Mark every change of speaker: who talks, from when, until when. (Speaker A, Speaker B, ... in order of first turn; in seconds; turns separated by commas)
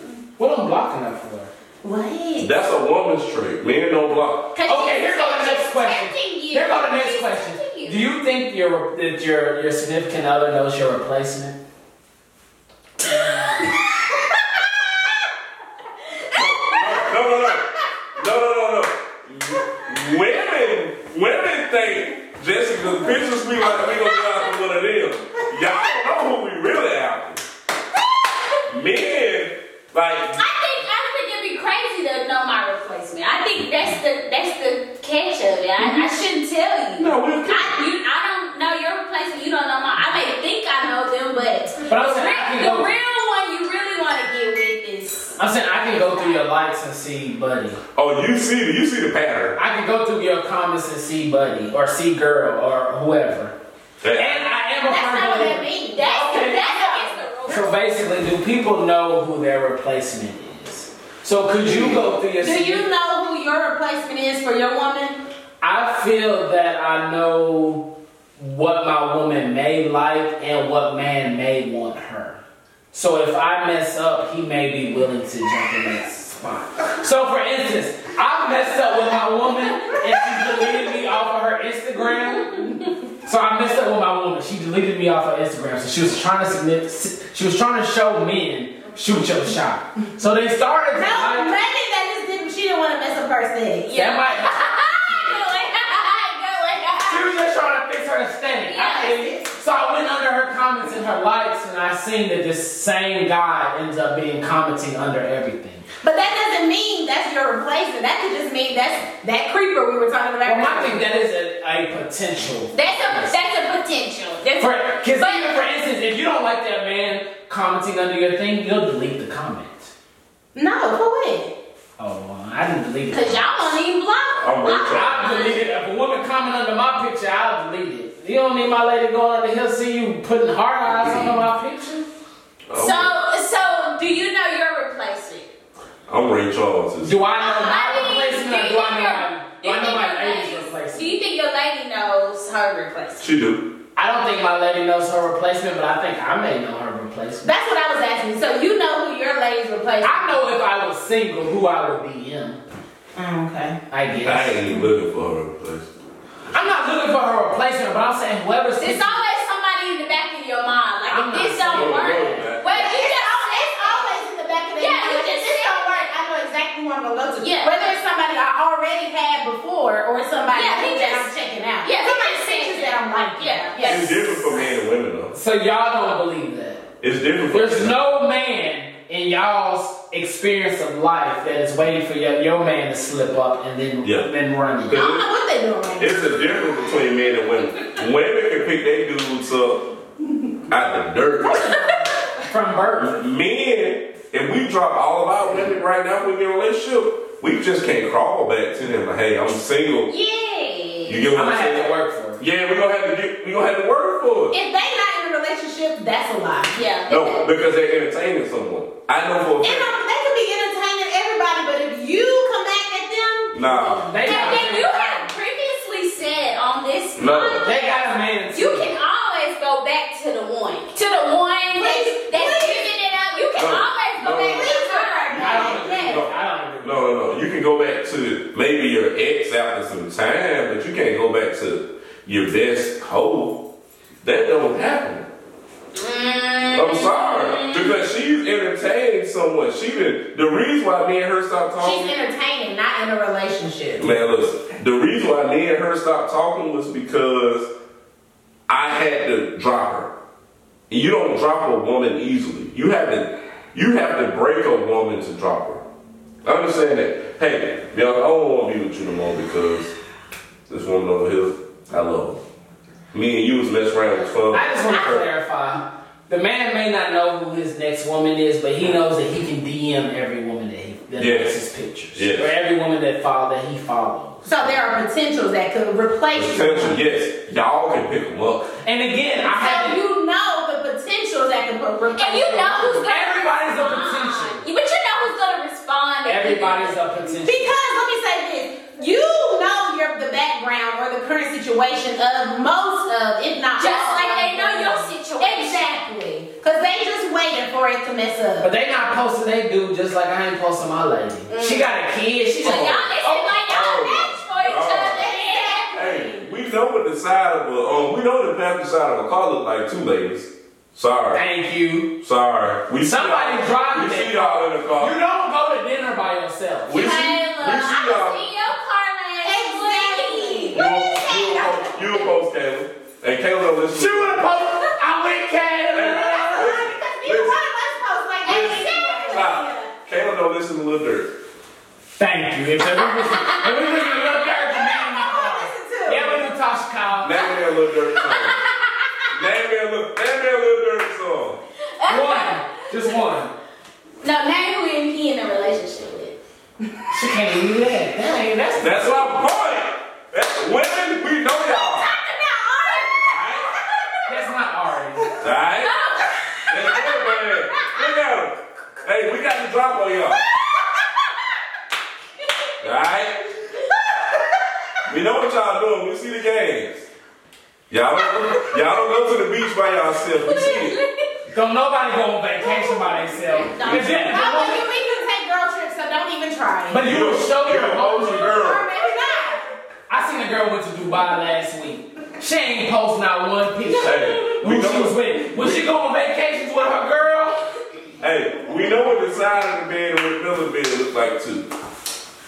Speaker A: 0.4-1.5, Speaker B: 1.8-2.5, Speaker C: 2.4-4.5, Speaker D: 4.5-8.0, Speaker A: 4.7-11.6, Speaker D: 13.1-13.8, Speaker C: 16.3-27.4, Speaker D: 16.3-17.1, Speaker D: 23.6-24.6, Speaker C: 28.7-30.4, Speaker D: 30.4-46.5, Speaker C: 37.0-37.8, Speaker A: 41.9-42.9, Speaker A: 45.4-47.8, Speaker C: 47.9-49.6, Speaker A: 49.5-53.5, Speaker C: 54.0-54.4, Speaker A: 54.1-56.7, Speaker B: 54.8-57.2, Speaker D: 56.0-57.9, Speaker A: 57.5-62.9, Speaker B: 62.4-65.2, Speaker A: 65.6-72.4, Speaker A: 72.9-82.7, Speaker A: 83.2-91.5, Speaker B: 90.9-93.9, Speaker D: 93.8-97.2, Speaker A: 93.9-94.6, Speaker A: 97.0-105.8, Speaker D: 98.7-99.3, Speaker B: 98.8-99.5, Speaker B: 106.0-111.0, Speaker A: 110.4-113.5, Speaker D: 112.7-115.5, Speaker A: 114.6-119.9, Speaker B: 120.5-121.5, Speaker A: 122.0-123.8, Speaker D: 123.1-125.6, Speaker C: 124.4-125.5, Speaker A: 124.8-132.1, Speaker C: 131.0-131.3, Speaker C: 132.7-133.1, Speaker D: 132.7-135.5, Speaker C: 136.1-137.2, Speaker A: 137.0-141.1, Speaker D: 137.4-143.2, Speaker C: 143.2-143.7, Speaker A: 143.9-147.5, Speaker B: 147.4-150.4, Speaker A: 150.0-152.6, Speaker B: 153.1-153.8, Speaker A: 153.9-154.6, Speaker C: 154.2-155.9, Speaker A: 156.5-159.2, Speaker D: 158.8-164.2, Speaker A: 161.1-162.4, Speaker C: 161.7-162.7, Speaker B: 162.7-174.7, Speaker D: 164.8-166.1, Speaker D: 167.4-167.9, Speaker D: 170.5-171.3, Speaker D: 171.8-174.1, Speaker C: 173.8-175.3, Speaker A: 175.3-176.8, Speaker C: 177.0-178.0, Speaker A: 177.5-185.0, Speaker C: 184.0-184.3, Speaker C: 184.8-185.3, Speaker B: 184.9-186.6, Speaker C: 186.0-189.9, Speaker C: 190.7-191.8, Speaker B: 191.6-192.1, Speaker A: 192.5-193.2, Speaker C: 193.0-200.1, Speaker D: 200.1-201.2, Speaker C: 201.1-204.5, Speaker A: 201.3-202.4, Speaker B: 204.5-206.8, Speaker D: 206.7-207.4, Speaker C: 207.1-209.9, Speaker B: 209.6-215.3, Speaker C: 213.5-214.1, Speaker A: 214.1-214.9, Speaker D: 214.2-218.0, Speaker C: 217.2-217.7, Speaker A: 217.6-218.9, Speaker D: 218.5-225.4, Speaker B: 221.8-222.9, Speaker C: 223.5-233.6, Speaker B: 224.4-226.2, Speaker A: 225.3-227.2, Speaker C: 234.2-235.3, Speaker D: 235.9-238.0, Speaker C: 236.7-242.1, Speaker B: 241.8-244.1, Speaker C: 244.0-247.7, Speaker C: 248.7-250.1, Speaker C: 250.9-255.8, Speaker C: 256.4-259.9, Speaker C: 260.7-262.4, Speaker C: 263.1-265.2, Speaker A: 264.5-274.8, Speaker C: 271.2-271.6, Speaker C: 272.1-272.5, Speaker B: 274.4-277.0, Speaker C: 276.3-278.7, Speaker A: 278.8-280.0, Speaker B: 279.4-283.1, Speaker D: 282.1-287.0, Speaker A: 283.1-284.6, Speaker A: 286.2-287.8, Speaker B: 287.4-298.7, Speaker D: 293.8-295.9, Speaker A: 298.6-303.5, Speaker D: 301.5-301.8, Speaker D: 302.6-306.3, Speaker C: 302.6-305.3, Speaker B: 305.1-306.2, Speaker C: 305.9-311.4, Speaker A: 311.3-312.1, Speaker C: 312.2-315.2, Speaker A: 313.0-317.1, Speaker C: 316.9-318.4, Speaker D: 316.9-320.9, Speaker B: 319.4-322.2, Speaker C: 320.7-324.4, Speaker A: 323.9-326.8, Speaker C: 325.9-327.6, Speaker B: 326.4-329.8, Speaker D: 328.4-329.6, Speaker C: 328.4-331.3, Speaker A: 332.1-337.4, Speaker D: 333.0-334.1, Speaker B: 334.7-336.5, Speaker C: 337.2-338.6, Speaker D: 338.1-338.8, Speaker C: 339.3-341.6, Speaker D: 341.9-343.1, Speaker A: 342.1-343.5, Speaker D: 344.2-346.4, Speaker A: 347.1-349.3, Speaker C: 348.8-352.1, Speaker D: 351.6-354.3, Speaker C: 353.3-353.7, Speaker A: 354.3-355.3, Speaker C: 355.4-355.9, Speaker D: 355.8-358.1, Speaker C: 356.7-360.4, Speaker C: 362.8-363.4, Speaker C: 365.1-367.1, Speaker C: 367.9-371.0, Speaker D: 370.3-371.3, Speaker A: 371.5-374.9, Speaker D: 372.7-375.1, Speaker C: 373.8-374.1, Speaker B: 374.0-377.1, Speaker A: 376.9-378.7, Speaker C: 377.0-378.9, Speaker B: 378.3-379.6, Speaker A: 380.1-387.6, Speaker D: 383.8-384.4, Speaker C: 384.0-385.9, Speaker C: 388.2-391.7